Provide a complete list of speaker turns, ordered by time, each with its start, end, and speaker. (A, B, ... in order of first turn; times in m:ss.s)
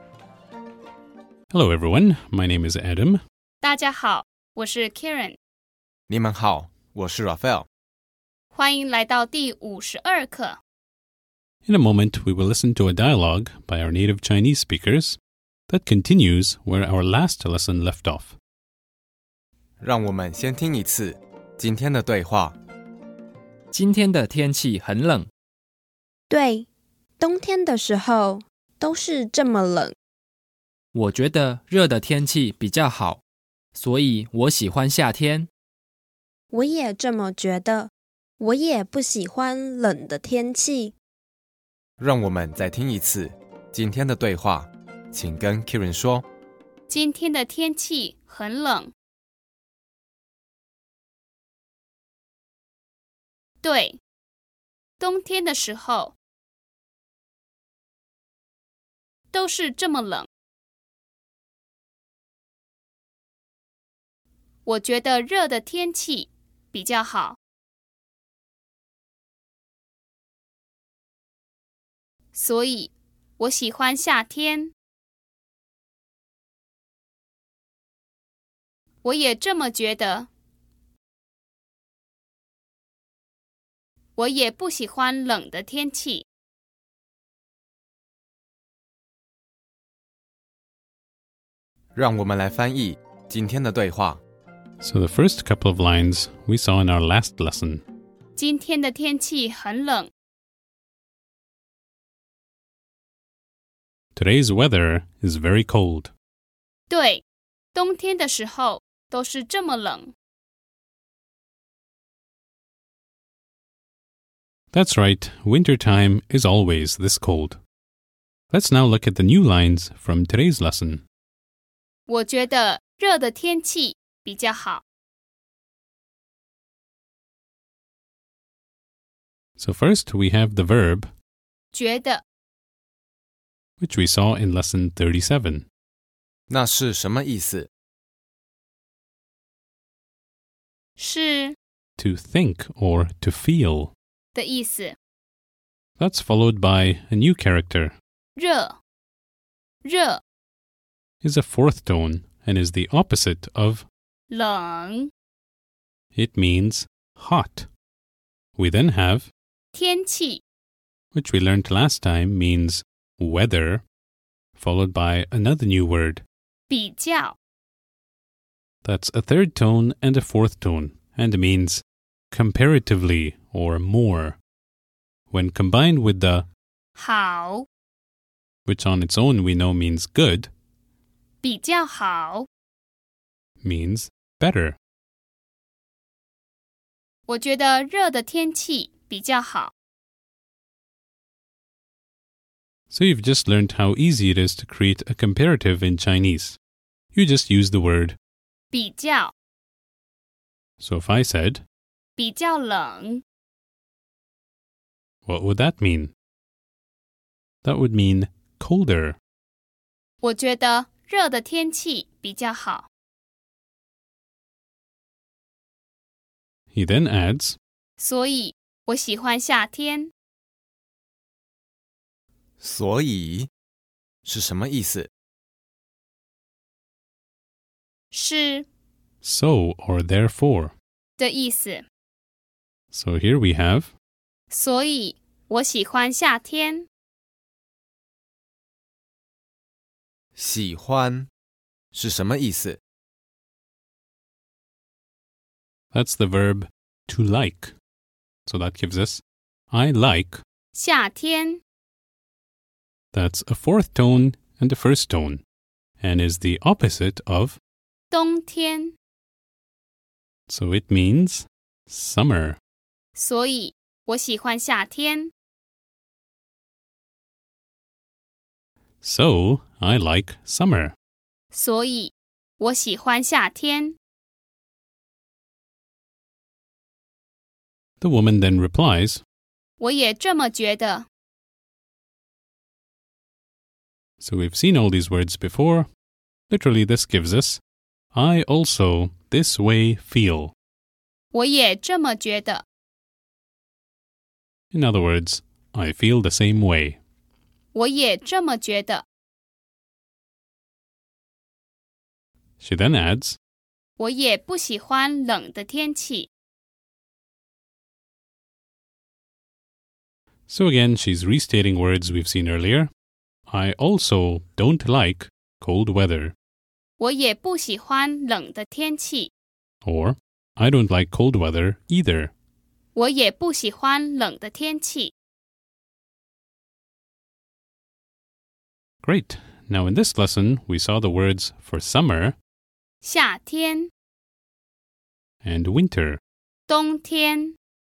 0:01.5-0:03.2 A
0:03.6-0:05.4 B
0:06.1-0:07.7 C
0:08.5-0:10.6 B
0:11.7-0:18.3 A
0:19.8-0:22.6 C
0:23.7-0:25.3 D
0:26.3-0:26.7 E
0:27.2-0:30.0 E
0:30.9-0:33.2 D
0:33.8-0:35.5 D
0:36.5-0:41.0 E
0:42.0-0:46.2 C
0:46.9-0:48.9 B
0:53.6-0:54.0 B
0:55.0-0:56.2 B
0:59.3-1:00.3 B
1:04.6-1:07.4 B
1:12.3-1:14.7 B
1:19.0-1:20.3 B
1:24.2-1:26.2 B
1:32.0-1:34.2 C
1:34.8-1:37.8 A
1:38.4-1:40.1 B
1:44.2-1:46.1 A
1:46.9-1:47.2 B
1:47.7-1:50.1 B
1:54.7-1:57.6 A
1:58.5-2:01.0 A
2:02.1-2:04.8 B
2:09.6-2:11.1 A
2:11.7-2:12.2 B
2:13.8-2:15.7 A
2:16.5-2:17.7 C
2:21.0-2:21.6 B
2:22.0-2:23.9 A
2:24.3-2:25.0 B
2:26.0-2:28.0 A
2:28.4-2:28.8 B
2:29.8-2:30.2 B
2:31.2-2:33.9 A
2:34.3-2:35.1 B
2:36.2-2:37.7 A
2:38.6-2:39.3 A
2:39.7-2:40.4 B
2:41.1-2:43.8 A
2:44.6-2:46.2 A
2:46.7-2:47.4 B
2:48.8-2:54.4 A
2:55.3-2:56.5 A
2:57.0-2:57.7 B
2:58.7-3:00.5 A
3:01.4-3:02.5 B
3:03.6-3:04.8 A
3:07.3-3:09.7 B
3:12.9-3:16.6 A
3:17.1-3:18.2 A
3:18.7-3:19.3 B
3:20.8-3:21.6 A
3:22.2-3:23.2 B
3:25.3-3:26.1 A
3:27.6-3:29.2 A
3:30.2-3:32.9 B
3:36.7-3:37.6 A
3:38.0-3:40.1 B
3:42.6-3:43.5 C
3:44.3-3:45.1 C
3:48.1-3:48.7 B
3:49.2-3:50.7 A
3:51.2-3:51.9 B
3:52.9-3:53.9 A
3:54.5-3:56.9 B
4:00.4-4:01.3 C
4:01.9-4:02.8 C
4:05.9-4:07.7 A
4:08.5-4:10.4 A
4:10.7-4:11.6 B
4:13.1-4:15.4 A
4:16.0-4:17.6 A
4:18.1-4:19.0 B
4:20.5-4:22.6 A
4:23.2-4:25.3 B
4:29.0-4:31.0 A
4:31.5-4:34.0 B
4:38.0-4:39.2 A
4:39.8-4:41.1 B
4:44.2-4:45.9 A
4:46.5-4:47.6 A
4:48.1-4:50.5 A
4:51.3-4:52.6 B
4:54.7-4:57.0 A
4:57.7-4:59.0 B
5:02.6-5:03.4 A
5:04.0-5:06.3 B
5:10.5-5:12.9 A
5:13.5-5:16.3 A
5:17.0-5:19.3 B
5:19.8-5:22.3 A
5:23.0-5:25.1 B
5:29.0-5:32.4 A
5:33.0-5:33.9 B
5:35.4-5:36.2 A
5:36.7-5:37.6 B